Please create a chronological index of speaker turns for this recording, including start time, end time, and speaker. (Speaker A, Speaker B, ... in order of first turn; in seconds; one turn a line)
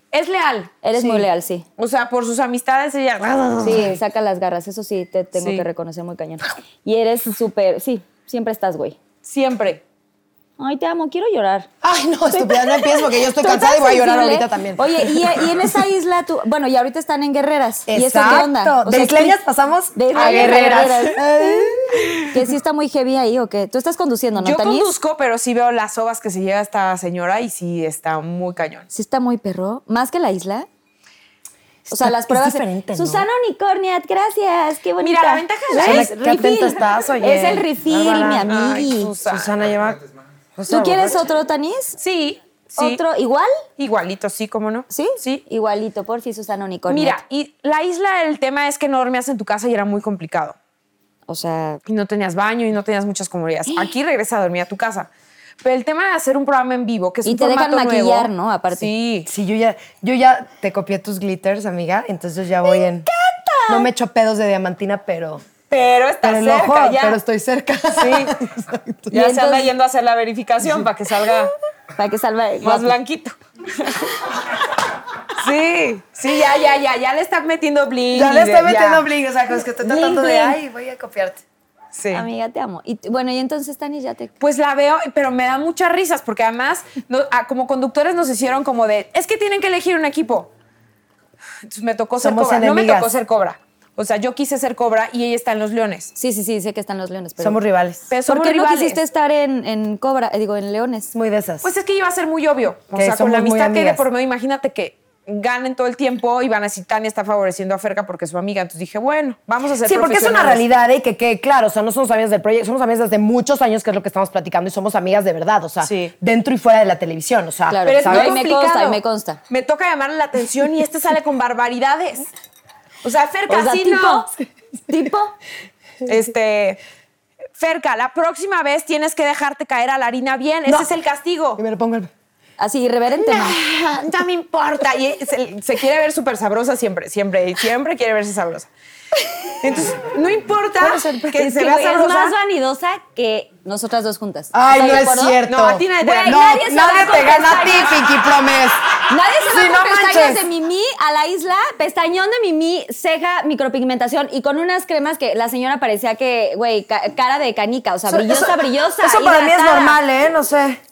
Speaker A: 0.1-0.7
Speaker B: 0.8-1.6
Speaker C: 0.9-1.2
Speaker A: 1.8-4.0
Speaker B: 3.6-9.0
Speaker A: 5.3-5.6
Speaker A: 9.2-9.8
Speaker B: 10.6-11.7
Speaker C: 11.8-15.7
Speaker B: 12.3-19.4
Speaker C: 17.9-22.2
Speaker B: 19.9-24.9
Speaker A: 20.1-21.1
Speaker A: 24.4-28.9
Speaker B: 28.9-30.7
Speaker C: 31.9-33.3
Speaker B: 31.9-39.1
Speaker A: 35.0-36.1
Speaker C: 35.8-38.6
Speaker A: 38.5-39.5
Speaker C: 39.2-40.0
Speaker C: 40.5-41.2
Speaker B: 40.7-42.0
Speaker A: 42.0-43.0
Speaker B: 42.8-43.5
Speaker A: 43.8-45.4
Speaker B: 44.9-47.2
Speaker A: 46.9-50.5
Speaker B: 51.3-51.8
Speaker A: 51.9-55.1
Speaker A: 55.6-59.3
Speaker B: 57.2-58.9
Speaker C: 59.2-63.1
Speaker B: 62.6-63.9
Speaker C: 63.7-65.4
Speaker A: 65.7-67.2
Speaker C: 66.2-69.1
Speaker A: 68.0-68.3
Speaker B: 69.1-69.7
Speaker A: 69.1-71.5
Speaker B: 72.0-72.9
Speaker A: 72.6-74.2
Speaker A: 75.3-79.0
Speaker C: 78.1-81.4
Speaker B: 79.8-80.6
Speaker A: 81.9-82.2
Speaker B: 82.1-84.3
Speaker A: 84.4-90.5
Speaker A: 91.6-96.1
Speaker C: 92.2-93.1
Speaker B: 96.1-97.6
Speaker C: 97.4-98.1
Speaker A: 98.1-99.0
Speaker B: 98.2-101.1
Speaker C: 101.1-101.7
Speaker A: 101.6-110.6
Speaker C: 102.9-104.0
Speaker C: 109.8-118.4
Speaker A: 115.8-116.1
Speaker B: 117.7-119.4
Speaker A: 117.8-122.3
Speaker A: 123.0-124.3
Speaker B: 123.5-124.3
Speaker B: 124.9-125.3
Speaker A: 126.0-126.8
Speaker A: 127.5-131.6
Speaker C: 131.6-132.1
Speaker B: 132.6-133.6
Speaker A: 133.3-138.7
Speaker A: 139.6-142.3
Speaker C: 140.8-141.4
Speaker B: 141.3-145.4
Speaker C: 144.5-148.8
Speaker A: 145.4-146.5
Speaker B: 146.0-148.0
Speaker B: 149.1-160.0
Speaker C: 149.4-150.4
Speaker C: 158.1-160.8